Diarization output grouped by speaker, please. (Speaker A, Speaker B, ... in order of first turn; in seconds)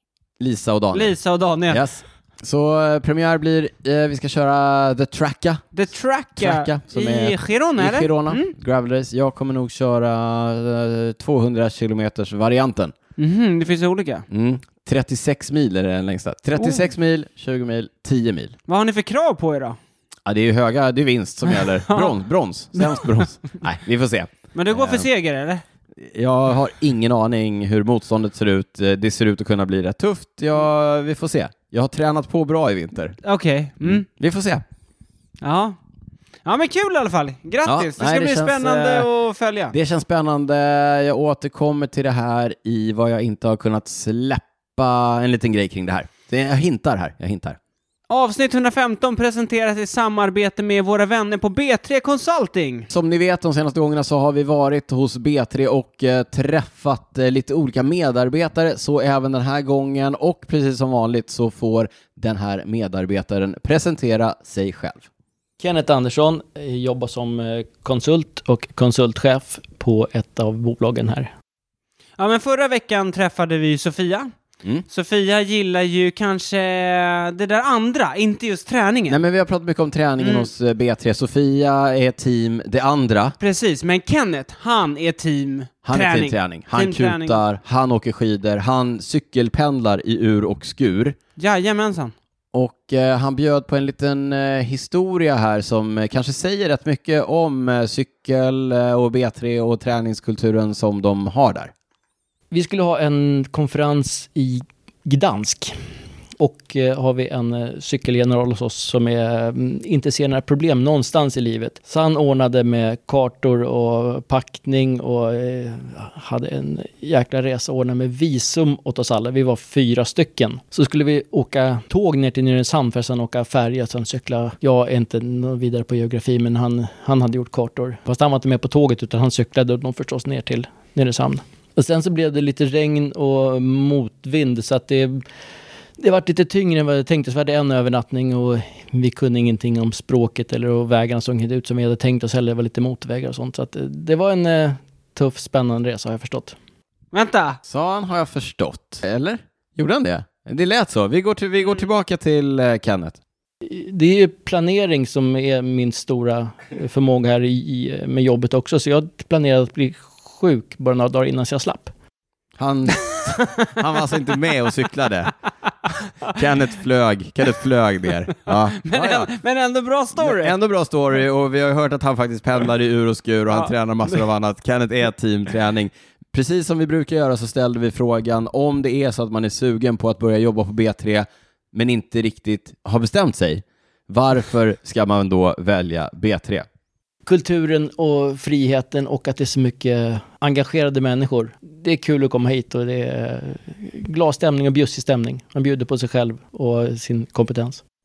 Speaker A: 0.4-1.1, 1.7-5.7, 6.4-12.9, 14.3-18.5, 20.2-25.1, 26.0-33.1, 33.8-34.6, 37.6-39.1, 39.7-47.6, 52.9-65.1, 79.1-83.4, 85.8-91.2, 92.5-101.7, 147.6-153.2, 162.6-165.3, 166.2-169.3, 170.2-186.7
Speaker B: 0.9-1.8, 5.7-8.5, 13.2-14.3, 16.6-16.9, 18.7-19.8, 21.5-22.1, 22.8-23.2, 24.5-25.6, 33.2-34.0, 35.4-35.8, 36.5-39.7, 48.1-52.9, 72.2-74.3, 74.9-79.2, 80.2-80.5, 83.4-87.4, 91.4-92.1, 147.1-147.6, 168.8-170.5, 173.5-174.2
Speaker C: 65.6-71.3, 102.5-105.8, 106.4-135.2, 136.0-146.6, 153.6-161.9, 187.2-197.8